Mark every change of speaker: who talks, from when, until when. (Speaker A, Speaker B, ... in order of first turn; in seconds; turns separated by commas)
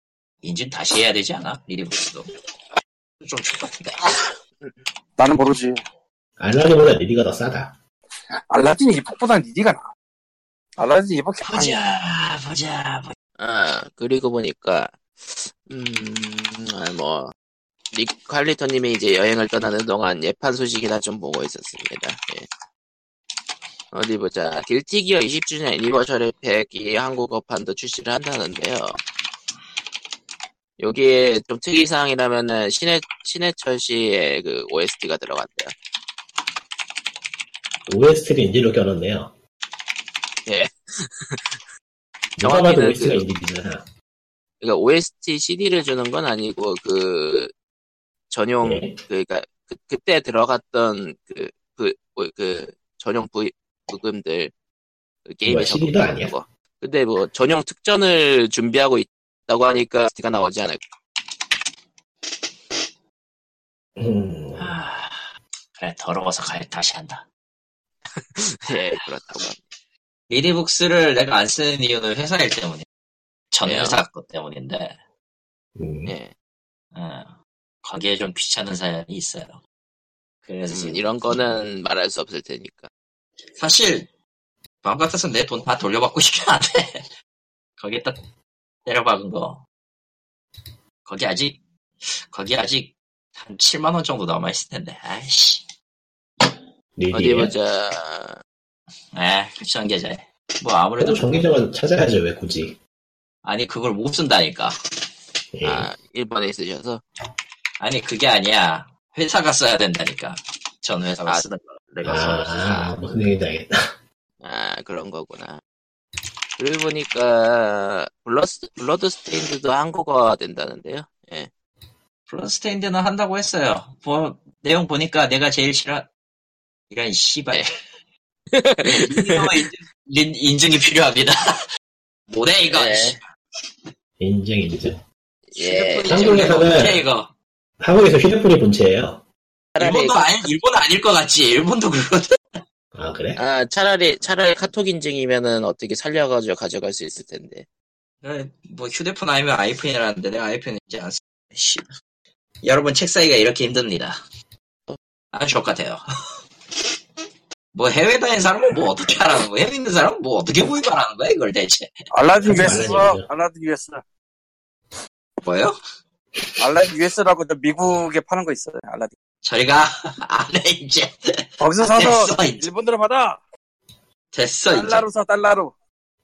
Speaker A: 0.4-2.3, Speaker A: 3.2-4.3, Speaker B: 5.2-5.8, Speaker C: 6.4-7.7, Speaker B: 8.5-9.9, Speaker B: 10.8-11.8, Speaker A: 11.4-13.1, Speaker D: 13.4-17.3, Speaker D: 17.9-22.5, Speaker D: 23.9-29.0, Speaker D: 30.8-35.7, Speaker C: 37.9-39.3, Speaker D: 40.5-41.6, Speaker C: 42.4-43.8, Speaker D: 42.4-43.3, Speaker D: 44.6-47.5, Speaker D: 48.3-54.5, Speaker C: 48.6-49.0, Speaker D: 55.3-60.8, Speaker C: 55.5-56.3, Speaker C: 64.0-64.8, Speaker A: 64.6-67.2, Speaker D: 68.2-69.6, Speaker A: 70.3-72.8, Speaker A: 73.5-75.0, Speaker D: 73.6-74.0, Speaker C: 75.8-76.1, Speaker D: 76.0-76.3, Speaker A: 76.9-79.6, Speaker A: 80.4-81.4, Speaker D: 80.7-82.9, Speaker A: 83.5-84.1, Speaker A: 84.8-87.1, Speaker A: 87.8-88.2, Speaker A: 88.8-89.6, Speaker A: 91.0-95.6, Speaker C: 97.0-97.5, Speaker D: 97.1-98.4, Speaker A: 99.1-101.5, Speaker C: 101.0-102.8, Speaker A: 103.4-104.8, Speaker C: 105.5-105.9, Speaker D: 105.6-107.0, Speaker A: 107.8-112.9, Speaker C: 112.0-113.8, Speaker D: 114.4-115.6, Speaker D: 116.6-121.5, Speaker A: 122.3-126.1, Speaker A: 126.9-127.8, Speaker D: 128.5-129.6, Speaker A: 128.8-131.4, Speaker A: 132.3-133.2, Speaker D: 132.7-133.2, Speaker C: 134.2-135.0, Speaker D: 135.5-136.4, Speaker A: 135.6-137.3, Speaker C: 136.1-137.0, Speaker C: 137.8-139.2, Speaker D: 139.7-140.3, Speaker A: 139.8-142.6, Speaker C: 142.9-143.4, Speaker D: 143.4-147.6, Speaker A: 148.2-151.9, Speaker A: 152.6-154.2, Speaker A: 155.3-156.0, Speaker A: 157.7-161.9, Speaker B: 162.1-164.0, Speaker C: 162.4-163.2, Speaker A: 165.4-165.8, Speaker B: 166.6-169.1, Speaker A: 169.4-172.7, Speaker B: 171.6-173.4, Speaker A: 174.3-175.1, Speaker B: 174.7-175.7